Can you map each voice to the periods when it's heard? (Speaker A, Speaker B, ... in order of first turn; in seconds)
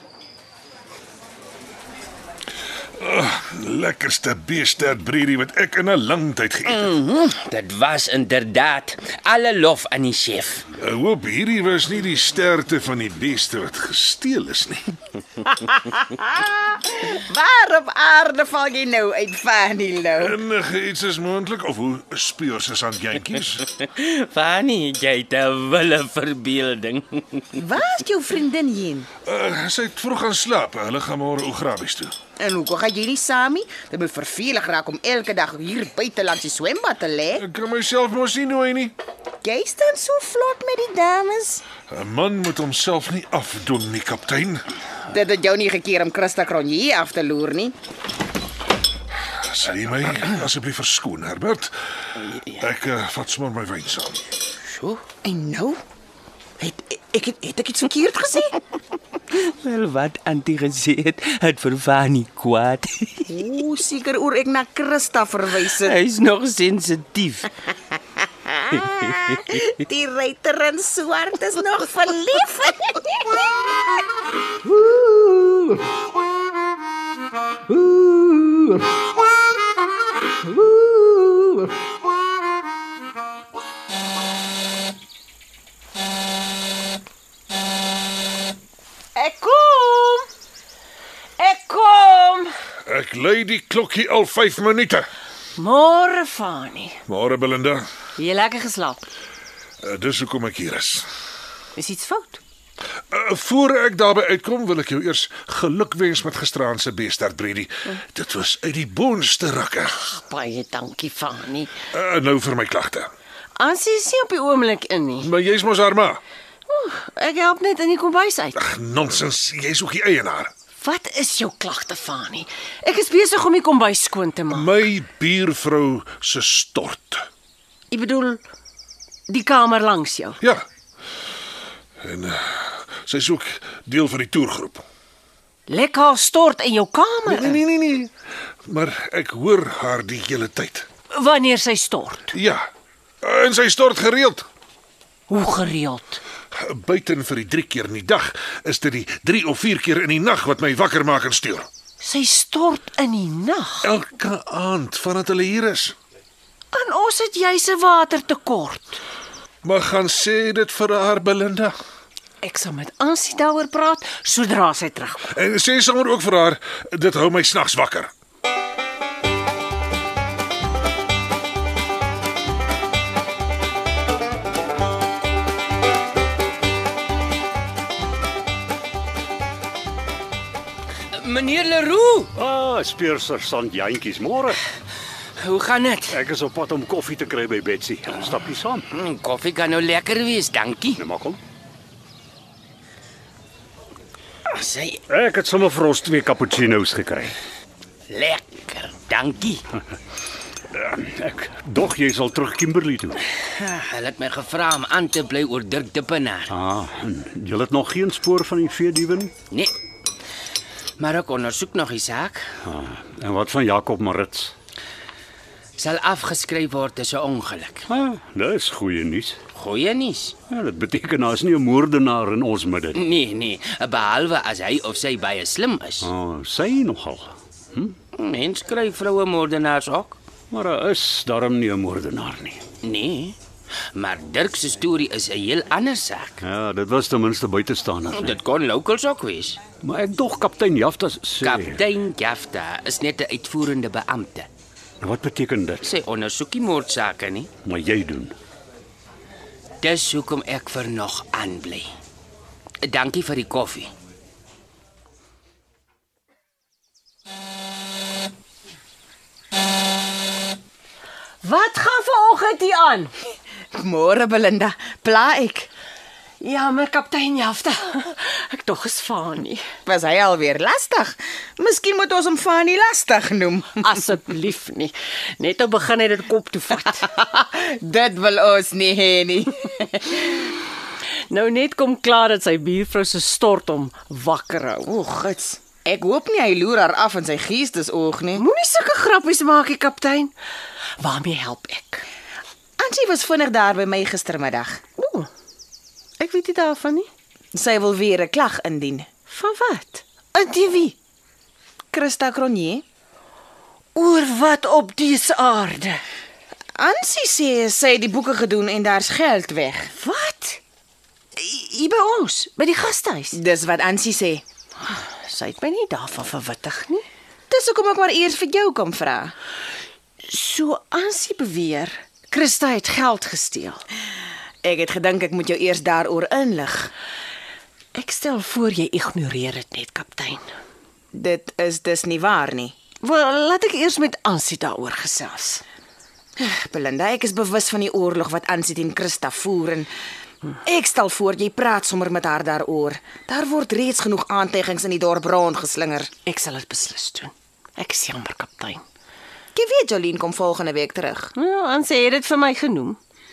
Speaker A: 3.0-6.9, 10.8-14.9, 20.2-23.6, 29.2-32.1, 37.4-38.9, 41.9-44.6, 49.3-51.7, 52.6-54.2, 92.9-95.1, 97.1-97.8, 99.8-101.0, 103.1-109.9, 111.9-113.1, 115.2-116.2, 118.5-120.5, 124.5-127.2, 132.0-134.8, 137.3-138.1, 138.7-140.9, 142.3-142.7, 143.2-144.4, 146.5-151.7, 153.8-155.9, 159.6-161.7, 165.3-168.1
Speaker B: 6.7-10.7, 23.7-27.6, 52.2-52.5, 54.7-55.0, 59.3-63.3, 65.6-67.5, 68.7-69.6, 181.1-182.3, 185.4-186.2, 188.9-191.0, 194.5-195.0, 198.1-199.6, 203.6-206.5, 211.0-212.5, 215.8-217.8, 219.5-220.3, 222.9-226.1, 228.1-230.2, 232.8-233.3, 233.9-236.4, 238.1-239.6, 241.4-244.5, 245.8-247.5, 249.8-251.9, 252.8-253.9
Speaker C: 16.0-20.4, 27.6-29.1, 32.4-37.4, 39.4-41.6, 45.1-47.7, 55.2-55.8, 56.6-58.5, 63.3-66.0, 69.5-73.2, 263.7-265.7, 269.9-273.9, 276.9-280.3, 284.9-288.4, 292.8-294.8, 297.5-299.1, 301.9-302.8, 306.8-309.9, 313.3-314.4, 317.5-319.3, 324.6-326.9, 331.1-332.7, 336.4-339.9, 340.6-346.1, 349.5-351.3
Speaker D: 89.1-90.3, 91.4-92.5, 95.6-97.0, 98.2-99.0, 101.8-102.4, 110.0-111.7, 113.6-115.3, 116.7-118.6, 120.8-124.8, 127.9-128.4, 129.3-130.4, 135.7-137.6, 141.1-142.3, 145.3-146.2, 152.0-153.9, 156.7-159.0, 162.4-165.3, 261.4-263.1, 266.4-269.6, 273.8-277.0, 281.3-284.9, 288.3-290.3, 291.0-292.0, 295.0-295.3, 296.2-297.1, 299.3-300.9, 303.9-306.0, 309.9-310.6, 311.4-313.4, 314.8-317.0, 320.2-323.8, 327.9-330.5, 333.0-335.6, 346.2-348.8, 351.4-353.0
Speaker E: 182.3-184.6, 186.1-188.9, 190.9-191.4, 195.1-197.3, 200.7-203.2, 206.5-209.3, 212.6-214.5, 217.9-219.4, 220.5-223.0, 226.0-228.0, 230.5-232.6, 236.4-238.3, 239.8-241.8, 245.0-245.8, 247.6-248.3